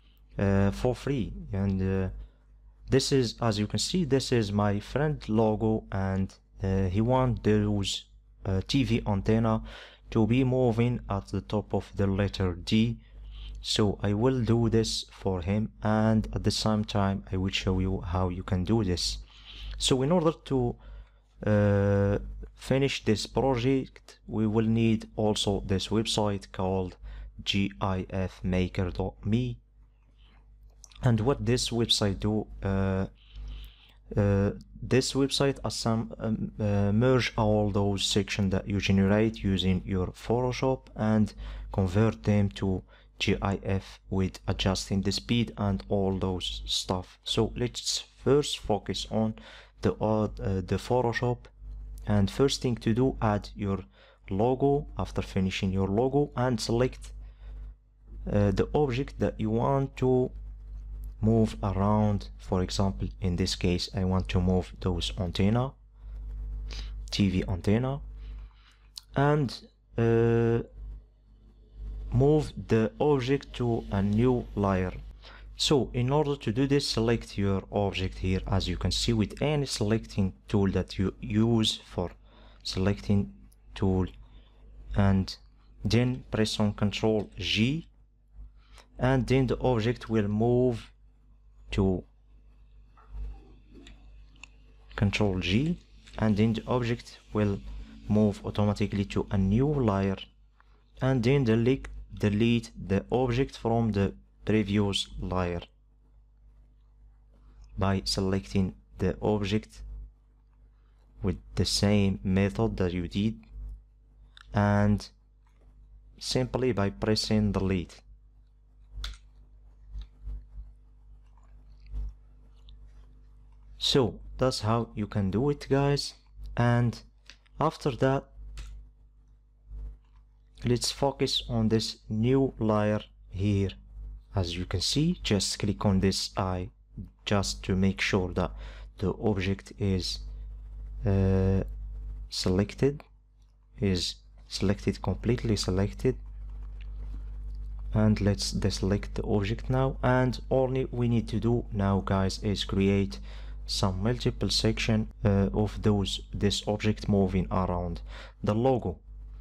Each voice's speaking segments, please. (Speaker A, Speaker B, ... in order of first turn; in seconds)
Speaker A: 0.4-2.1, 2.9-13.0, 13.6-19.2, 19.8-20.8, 21.4-29.6, 31.0-33.1, 34.1-51.5, 52.1-57.1, 58.2-60.3, 61.2-65.7, 67.1-68.0, 69.1-70.7, 72.1-75.0, 75.6-84.1, 84.9-87.9, 89.0-90.9, 91.7-92.0, 94.9-100.3, 101.0-105.7, 107.8-109.8, 111.2-113.4, 114.5-115.1, 116.2-118.0, 123.8-127.0, 127.6-128.3, 130.6-133.8, 134.3-140.2, 141.0-141.7, 142.3-143.0, 143.8-146.2, 147.9-159.0